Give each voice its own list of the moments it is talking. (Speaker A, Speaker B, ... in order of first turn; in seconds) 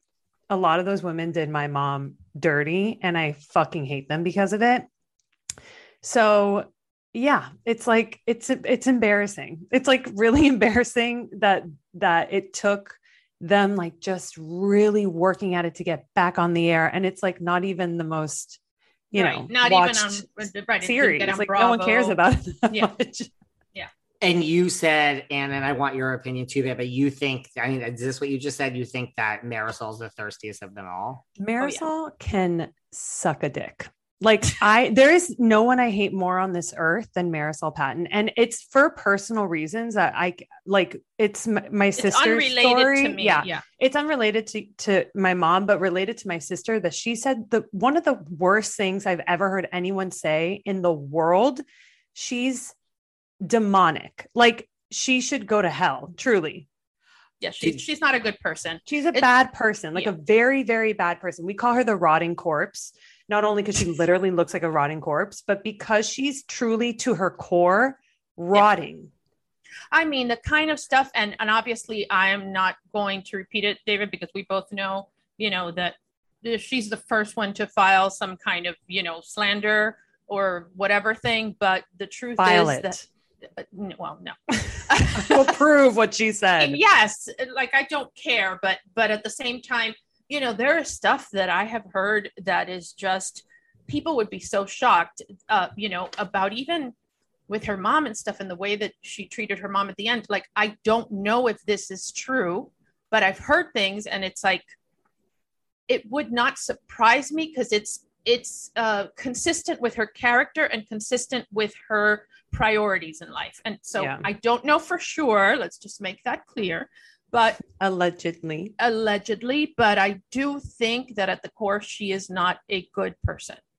Speaker A: 0.5-4.9, 6.0-18.6, 19.1-20.2, 20.8-23.3, 31.4-51.6, 52.1-52.7, 53.4-56.7, 58.9-69.1, 82.4-83.0, 85.1-86.8, 114.0-114.3, 117.7-118.7
Speaker B: 19.1-22.2, 42.0-43.6, 57.4-59.3, 69.9-85.5, 86.6-96.9, 97.5-104.6, 105.9-117.6, 118.8-123.6
Speaker C: 24.2-31.2